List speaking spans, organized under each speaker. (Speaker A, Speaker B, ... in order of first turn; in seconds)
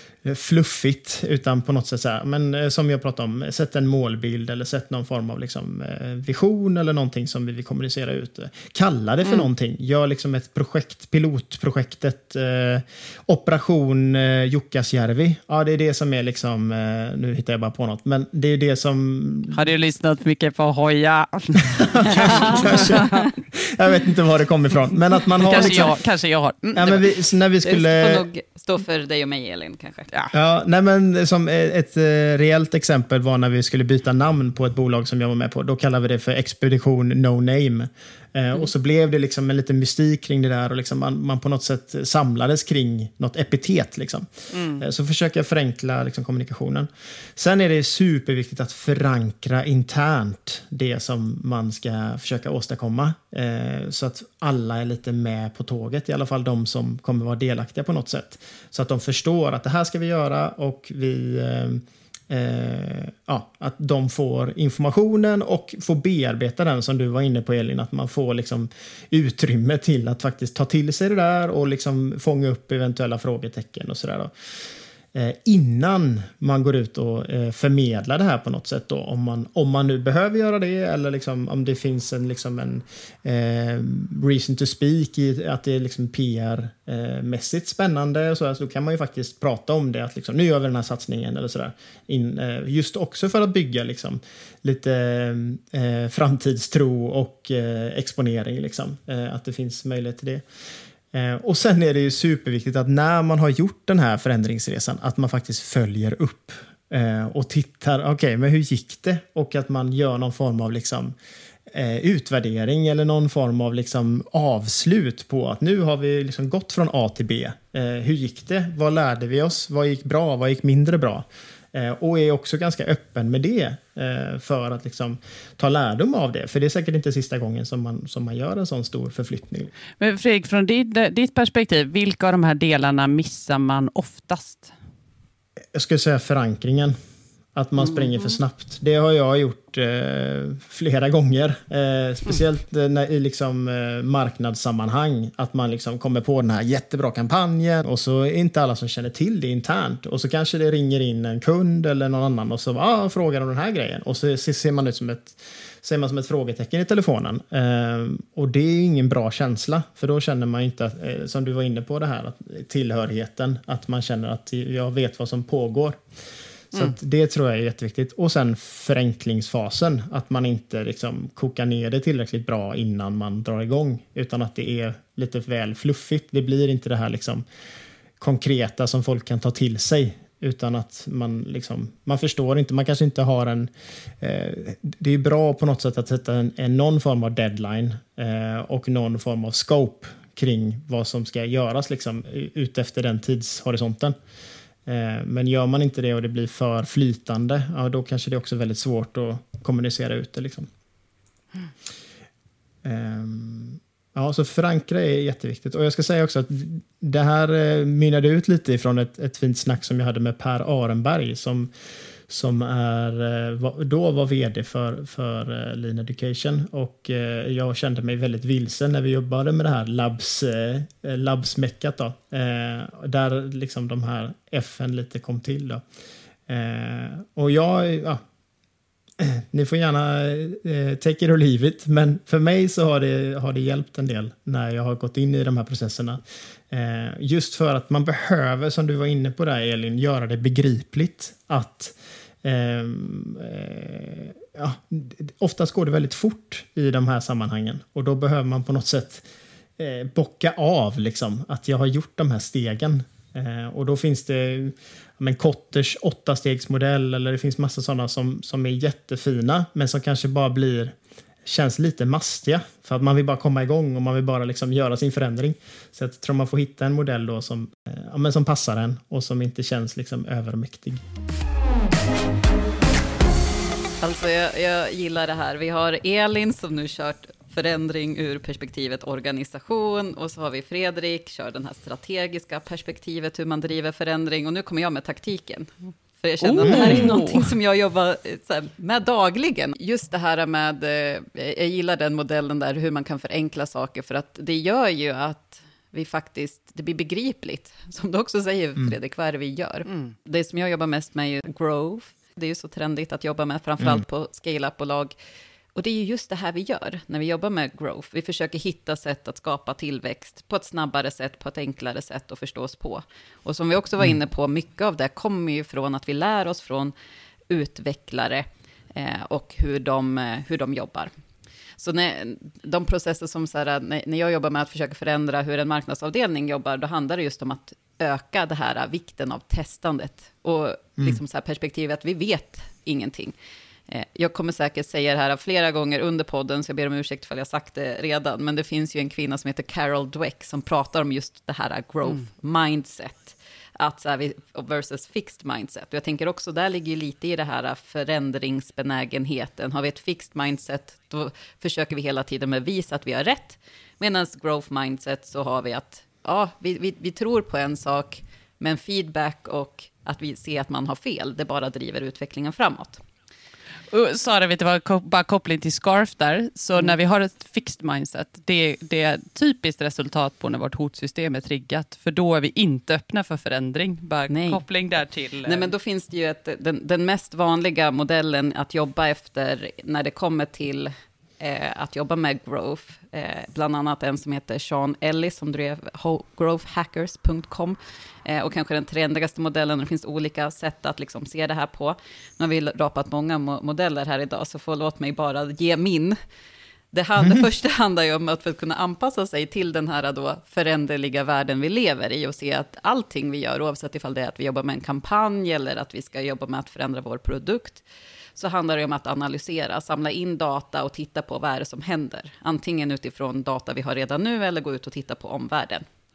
Speaker A: 0.2-19.6, 21.8-25.9, 26.8-28.2, 30.3-74.3, 75.1-100.4, 101.1-111.1, 111.7-129.7, 135.7-137.0, 137.5-166.0, 166.7-177.4, 178.2-194.1, 194.8-200.7, 202.8-211.7, 212.3-225.8, 226.5-228.2, 229.2-249.2, 249.8-271.0, 286.6-287.1, 397.2-397.4
Speaker B: 19.5-23.3, 25.5-27.0, 44.5-44.8, 130.0-134.7, 137.8-138.3, 286.4-287.5, 299.9-300.1, 363.9-375.7
Speaker C: 22.2-23.2, 27.6-30.1, 274.0-305.1, 305.7-316.9, 317.5-321.1, 321.8-333.4, 333.9-363.0, 374.3-374.6, 375.4-396.2, 396.9-407.8, 408.4-415.9